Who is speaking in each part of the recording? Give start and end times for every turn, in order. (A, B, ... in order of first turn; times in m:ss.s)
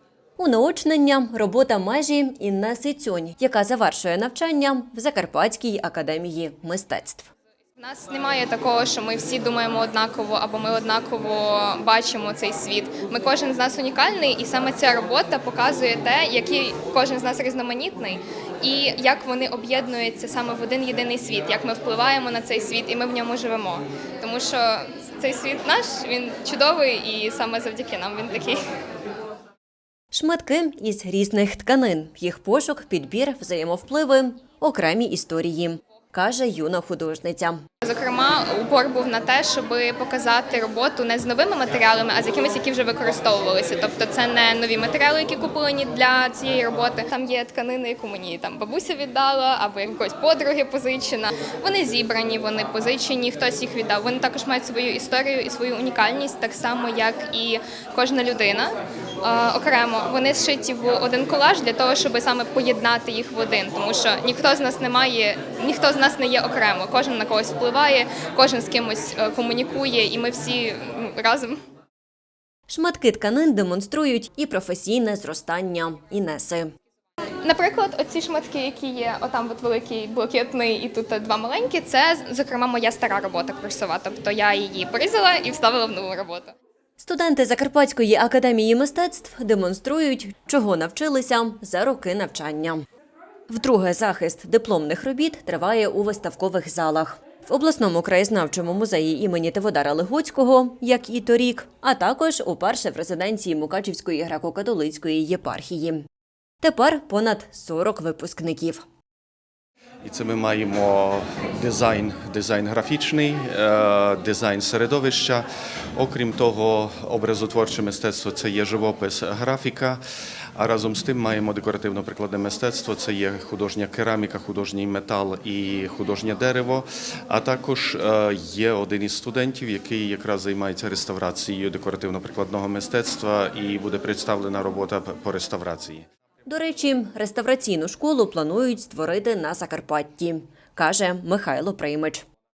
0:00.4-0:07.3 A
0:07.8-0:28.6 B
0:30.1-0:37.6 A
0:37.8-0:58.7 B
0:59.2-1:11.6 B
1:12.7-1:16.7 A
1:17.4-1:26.5 B
1:27.0-1:32.8 A
1:33.5-1:46.0 A
1:46.6-1:48.8 A
1:50.0-2:00.0 C
2:00.6-2:16.0 C
2:16.5-2:22.2 A